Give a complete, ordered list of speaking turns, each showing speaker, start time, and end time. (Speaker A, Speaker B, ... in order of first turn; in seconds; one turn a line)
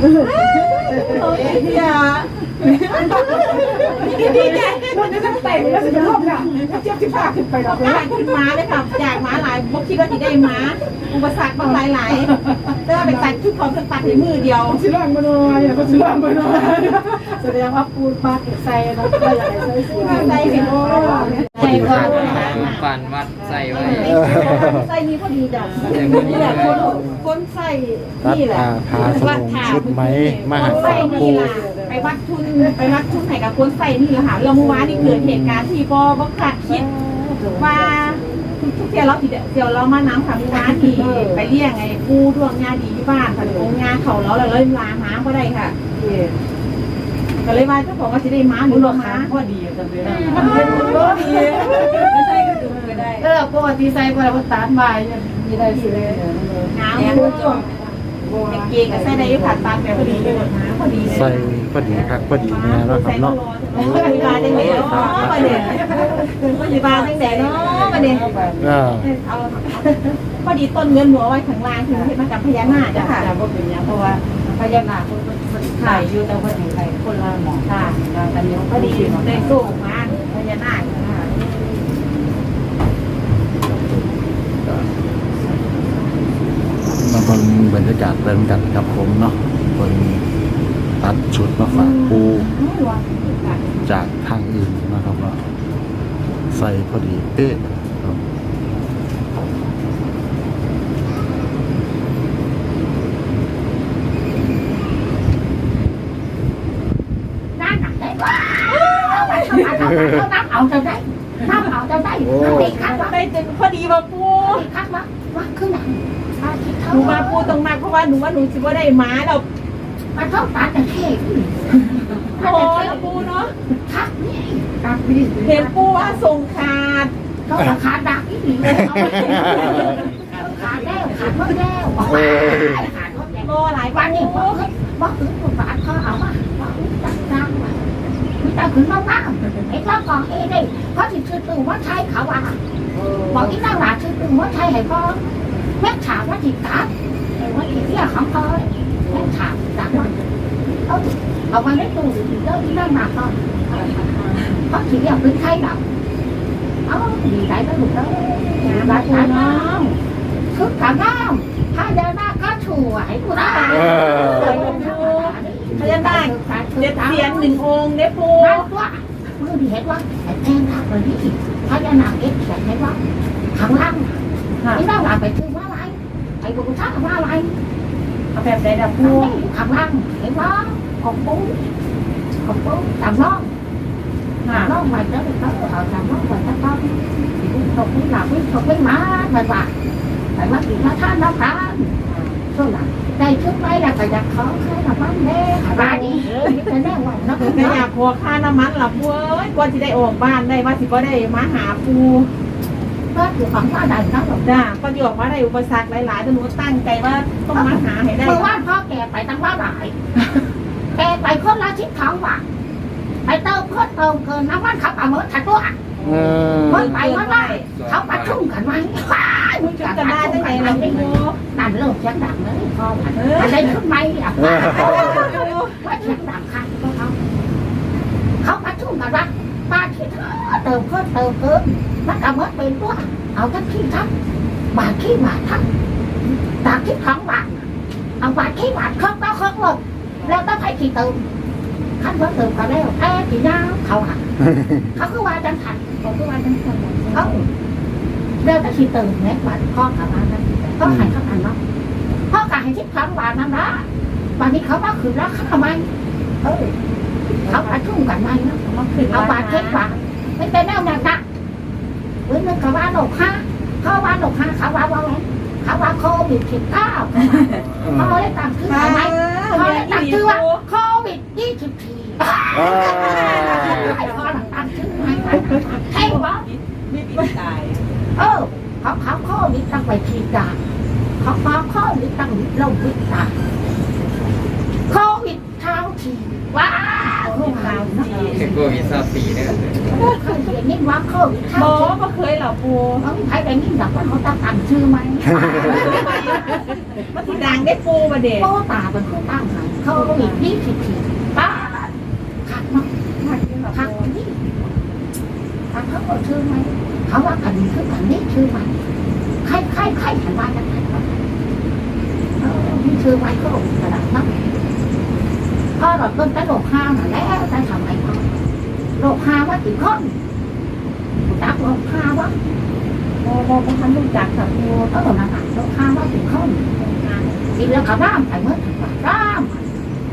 Speaker A: 0.1-14.8
Speaker B: 0.3-2.0
Speaker B: 2.6-8.2
Speaker B: 14.7-22.6
Speaker A: 19.3-23.0
Speaker C: 21.5-22.7
Speaker D: 21.6-24.3
Speaker B: 23.4-28.2
Speaker A: 23.7-24.9
Speaker E: 24.2-24.8
Speaker A: 25.5-27.7
Speaker D: 25.8-26.9
Speaker E: 28.2-31.5
Speaker A: 28.2-36.9
Speaker B: 29.0-29.3
Speaker B: 30.3-32.8
Speaker B: 34.6-35.1
Speaker E: 35.2-35.7
Speaker B: 36.7-38.4
Speaker A: 37.5-45.7
Speaker B: 40.6-41.5
Speaker B: 43.4-43.7
Speaker B: 46.0-46.4
Speaker A: 47.4-49.3
Speaker B: 48.7-60.5
Speaker A: 50.0-52.5
Speaker C: 50.1-51.1
Speaker A: 56.7-57.7
Speaker A: 58.4-73.3
Speaker E: 61.0-63.4
Speaker B: 63.7-68.9
Speaker E: 64.5-65.6
Speaker D: 67.6-68.5
Speaker E: 68.6-69.1
Speaker B: 72.6-79.7
Speaker A: 75.8-76.1
Speaker A: 77.7-78.0
Speaker A: 78.7-81.5
Speaker E: 83.6-84.0
Speaker E: 87.0-90.2
Speaker E: 91.0-92.5
Speaker A: 91.7-93.6
Speaker E: 93.8-95.4
Speaker E: 96.5-98.2
Speaker C: 107.5-113.2
Speaker A: 108.7-109.8
Speaker E: 112.2-112.7
Speaker A: 112.4-114.7
Speaker C: 114.4-117.6
Speaker A: 116.9-119.4
Speaker C: 120.1-123.2
Speaker A: 122.4-123.5
Speaker C: 123.8-126.2
Speaker B: 124.9-125.3
Speaker A: 125.4-127.1
Speaker C: 127.5-142.6
Speaker A: 129.2-130.0
Speaker A: 133.4-134.6
Speaker B: 142.9-143.6
Speaker C: 143.3-150.2
Speaker C: 150.9-155.8
Speaker A: 153.8-154.6
Speaker C: 156.8-159.9
Speaker A: 158.6-159.8
Speaker C: 160.5-167.6
Speaker A: 163.4-168.7
Speaker C: 168.4-173.0
Speaker C: 173.5-177.6
Speaker A: 174.6-174.8
Speaker A: 178.3-179.4
Speaker C: 179.0-181.6
Speaker C: 182.4-183.5
Speaker A: 184.4-184.8
Speaker C: 184.5-189.7
Speaker C: 190.3-191.9
Speaker A: 192.0-192.4
Speaker C: 192.5-197.9
Speaker A: 195.6-196.6
Speaker A: 197.4-202.3
Speaker C: 203.1-204.7
Speaker A: 204.4-208.6
Speaker C: 207.5-209.9
Speaker C: 210.9-212.4
Speaker C: 213.2-215.8
Speaker A: 216.0-217.7
Speaker E: 216.1-216.8
Speaker C: 216.6-227.2
Speaker D: 217.6-218.4
Speaker A: 219.6-221.4
Speaker A: 223.1-223.8
Speaker A: 224.4-225.9
Speaker C: 228.4-234.1
Speaker C: 234.7-235.7
Speaker C: 236.6-237.7
Speaker C: 238.2-241.3
Speaker C: 242.0-245.9
Speaker A: 246.0-247.5
Speaker C: 247.1-247.5
Speaker C: 248.4-251.6
Speaker C: 252.3-255.9
Speaker A: 256.4-256.7
Speaker C: 256.4-256.7
Speaker C: 257.4-261.2
Speaker A: 258.8-259.9
Speaker C: 262.2-276.5
Speaker A: 267.2-267.6
Speaker A: 268.6-270.6
Speaker E: 272.6-273.4
Speaker A: 272.6-277.8
Speaker C: 278.1-280.6
Speaker C: 281.2-283.4
Speaker C: 284.9-292.0
Speaker A: 287.2-288.5
Speaker D: 288.3-290.1
Speaker A: 291.5-293.1
Speaker C: 293.0-296.8
Speaker A: 295.6-298.5
Speaker C: 298.4-302.9
Speaker A: 299.9-300.5
Speaker A: 303.2-304.1
Speaker C: 303.7-304.7
Speaker C: 305.7-308.8
Speaker C: 309.4-311.2
Speaker C: 312.4-314.3
Speaker C: 315.8-318.4
Speaker C: 319.0-320.1
Speaker C: 321.2-322.3
Speaker A: 323.2-324.9
Speaker C: 324.9-326.7
Speaker A: 326.8-327.6
Speaker C: 327.5-329.8